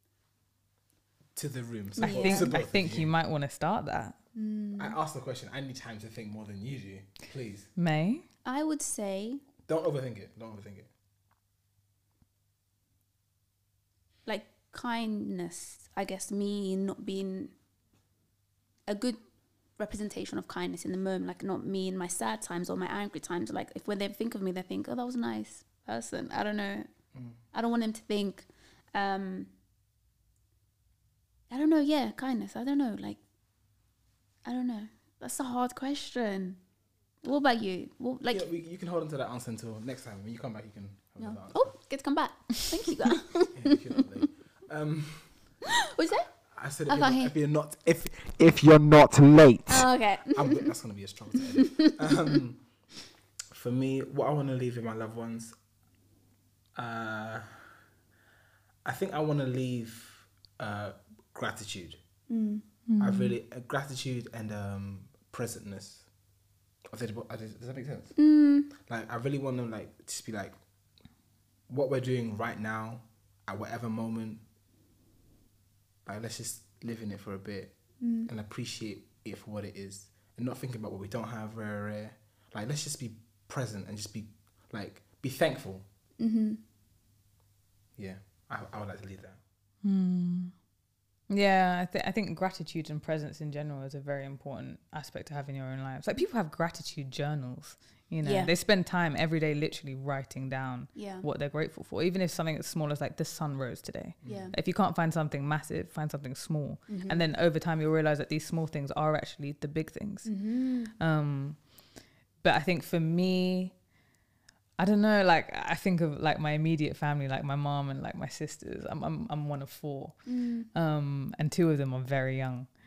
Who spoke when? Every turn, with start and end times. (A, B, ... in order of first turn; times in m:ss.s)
0:01.4-0:03.1 A
0:02.0-0:04.2 B
0:02.0-0:02.5 C
0:04.3-0:05.0 C
0:04.8-0:07.7 A
0:07.8-0:08.2 B
0:08.4-0:09.4 C
0:09.6-0:10.9 A
0:14.2-0:17.5 C
0:18.9-0:19.2 C
0:19.8-0:26.9 C
0:27.5-0:29.5 C
0:31.5-0:33.2 C
0:34.4-0:36.6 C
0:37.2-0:38.5 C
0:38.3-0:41.7 A
0:41.2-0:44.3 C
0:43.5-0:45.3 A
0:45.6-0:46.3 C
0:46.5-0:52.6 A
0:46.9-0:47.3 C
0:49.7-0:50.7 C
0:51.5-0:52.4 C
0:53.5-0:55.5 A
0:56.8-0:57.6 A
0:58.8-1:02.0 A
1:02.3-1:02.6 C
1:02.9-1:03.3 B
1:03.0-1:06.0 A
1:06.9-1:08.1 A
1:08.2-1:08.7 C
1:08.8-1:10.6 A
1:11.7-1:14.4 A
1:16.0-1:17.7 A
1:18.0-1:18.3 C
1:18.2-1:25.8 A
1:26.2-1:26.6 C
1:28.0-1:29.4 A
1:29.8-1:30.5 B
1:31.3-1:50.3 B
1:38.2-1:38.5 C
1:40.9-1:41.2 C
1:44.2-1:44.5 A
1:44.2-1:44.5 C
1:46.9-1:47.2 C
1:50.2-1:50.9 C
1:51.0-1:51.6 B
1:52.4-1:53.7 B
1:54.8-2:00.2 B
2:00.2-2:00.7 C
2:00.7-2:02.7 B